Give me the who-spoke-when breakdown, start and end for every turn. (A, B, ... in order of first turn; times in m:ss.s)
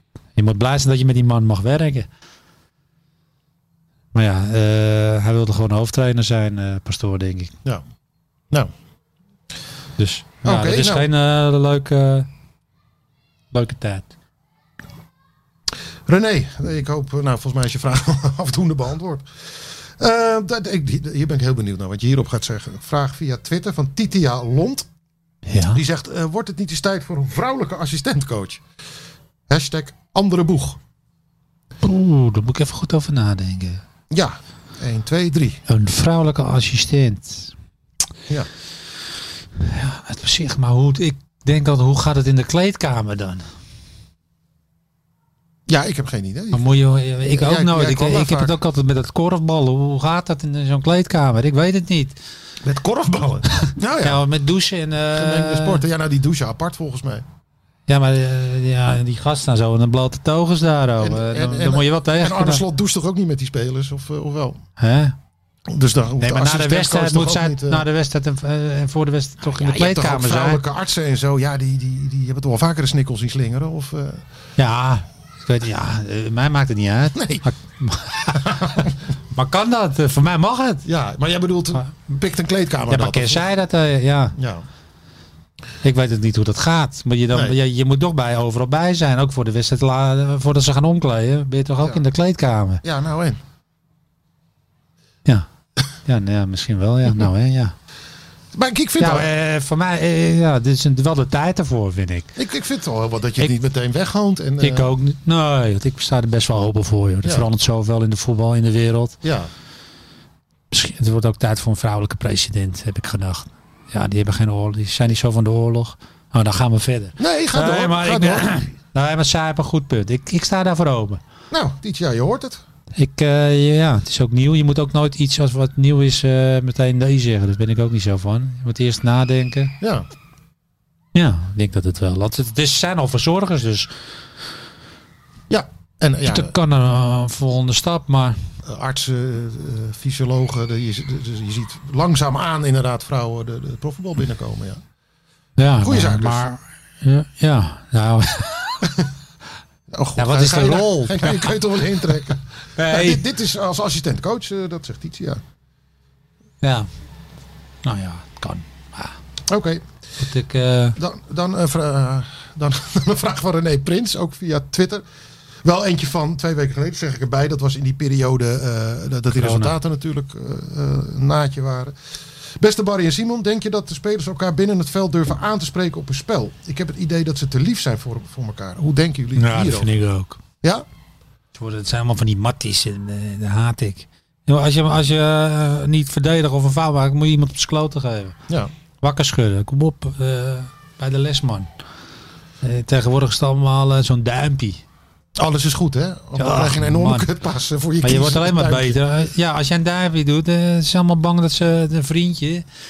0:00.4-0:02.1 A
0:04.1-0:07.5 A
0:10.0-0:12.3 A
0:10.4-0:11.1 B
0:13.5-0:14.1 A
0:16.0-0:19.2 B
0:19.8-0:24.9 B
0:25.5-0:25.8 A
0:25.7-0:28.6 B
0:29.5-0:30.8 B
0:31.8-0:33.8 A
0:34.1-0:35.6 B
0:35.7-0:37.5 A
0:39.6-0:43.4 A
0:45.7-0:46.7 B
0:46.5-0:52.2 A
0:47.3-0:48.6 B
0:52.6-0:54.2 B
0:53.5-0:55.8 A
0:55.1-0:57.2 B
0:57.9-1:02.6 A
1:01.0-1:04.6 B
1:04.8-1:05.1 A
1:05.7-1:07.8 B
1:06.2-1:10.6 A
1:09.5-1:14.2 B
1:14.6-1:20.8 A
1:17.1-1:17.4 B
1:18.3-1:18.9 B
1:20.8-1:23.4 B
1:22.9-1:24.4 A
1:24.4-1:24.6 B
1:25.8-1:32.8 A
1:32.8-1:33.4 B
1:36.0-1:37.7 A
1:38.5-1:39.3 B
1:39.0-1:42.3 A
1:42.4-1:44.9 B
1:44.6-1:49.2 A
1:49.2-1:49.5 B
1:50.7-2:01.2 A
1:57.2-1:58.6 B
2:01.5-2:02.6 B
2:03.0-2:09.7 A
2:09.8-2:10.1 B
2:11.1-2:13.9 A
2:15.5-2:16.5 B
2:16.2-2:18.4 A
2:18.6-2:24.8 B
2:25.6-2:28.9 A
2:25.8-2:26.4 B
2:29.9-2:35.4 B
2:30.2-2:31.6 A
2:32.8-2:33.2 A
2:36.6-2:36.9 A
2:37.8-2:39.2 A
2:39.5-2:39.8 B
2:40.2-2:41.0 A
2:41.0-2:45.0 B
2:45.6-2:51.9 B
2:49.3-2:49.7 A
2:52.6-2:59.9 B
2:59.3-3:00.4 A
3:01.6-3:08.4 A
3:09.0-3:11.7 A
3:12.6-3:14.8 A
3:15.4-3:19.0 B
3:16.4-3:17.3 A
3:18.0-3:22.6 A